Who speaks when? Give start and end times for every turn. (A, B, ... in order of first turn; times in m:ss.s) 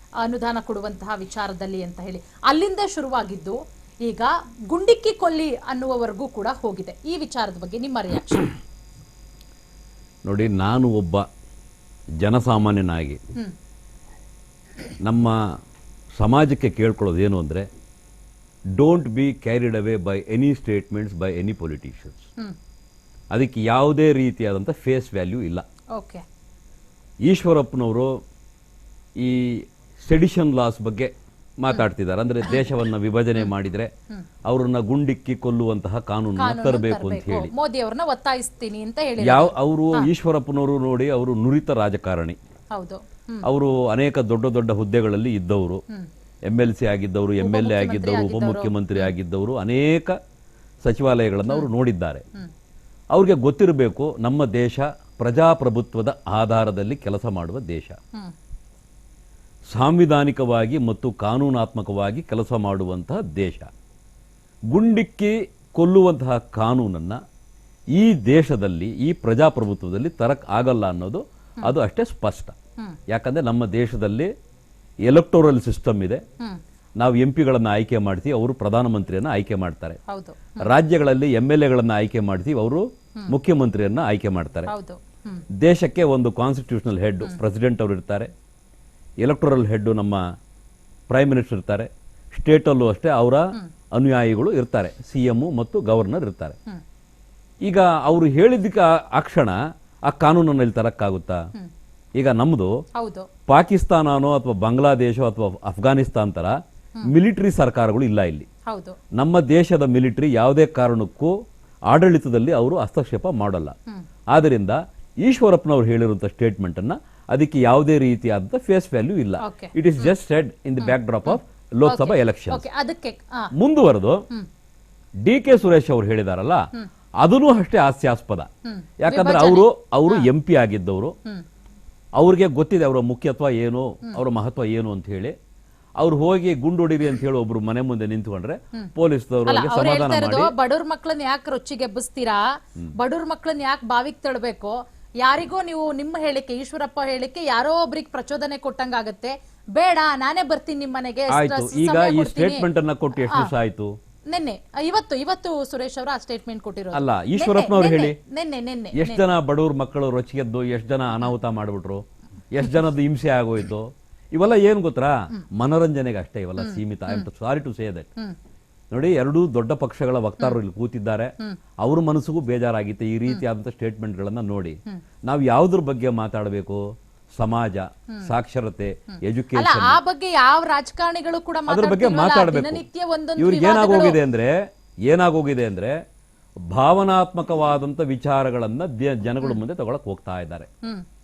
0:00.2-0:08.5 A
0:10.2-0:11.2 B
0:12.2-0:13.2 B
0:15.0-0:15.4 B
0:16.2-0:17.6 B
0:18.8-0:22.3 B
0:23.3-0:25.6 B
0:25.9-0:26.2 A
0:27.2-0:28.2 B
0:29.2-0:33.9 B
0:34.4-0:37.5 B
0:36.4-0:40.1 A
0:39.2-0:42.4 B
0:42.7-0:43.5 A
0:43.4-0:45.8 B
0:46.4-0:50.2 B
0:47.4-0:49.1 A
0:50.8-0:52.2 B
0:53.1-0:58.0 B
0:59.7-1:03.7 B
1:04.7-1:07.2 B
1:07.9-1:12.5 B
1:13.1-1:14.3 B
1:15.0-1:16.2 B
1:17.0-1:20.0 B
1:20.1-1:20.7 A
1:20.6-1:24.7 B
1:24.7-1:25.4 A
1:25.6-1:28.3 B
1:29.2-1:30.2 B
1:31.1-1:36.5 B
1:37.6-1:41.4 B
1:42.2-1:42.7 B
1:43.0-1:43.3 A
1:43.5-1:48.5 B
1:48.7-1:49.0 A
1:49.1-1:51.3 B
1:51.9-1:53.7 B
1:54.3-2:02.6 B
1:59.4-2:00.1 A
2:00.8-2:03.5 A
2:03.6-2:04.2 B
2:05.2-2:06.6 B
2:07.2-2:08.5 B
2:08.6-2:10.3 A
2:09.0-2:11.1 B
2:12.2-2:15.3 B
2:16.0-2:20.5 B
2:19.4-2:22.4 A
2:23.0-2:33.5 A
2:31.3-2:33.9 B
2:34.3-2:39.2 A
2:36.9-2:38.2 B
2:38.9-2:48.1 B
2:46.6-2:47.2 A
2:48.9-2:56.8 B
2:57.4-3:00.0 B
2:59.5-3:04.2 A
3:01.7-3:02.8 B
3:03.4-3:06.0 B
3:06.7-3:10.7 B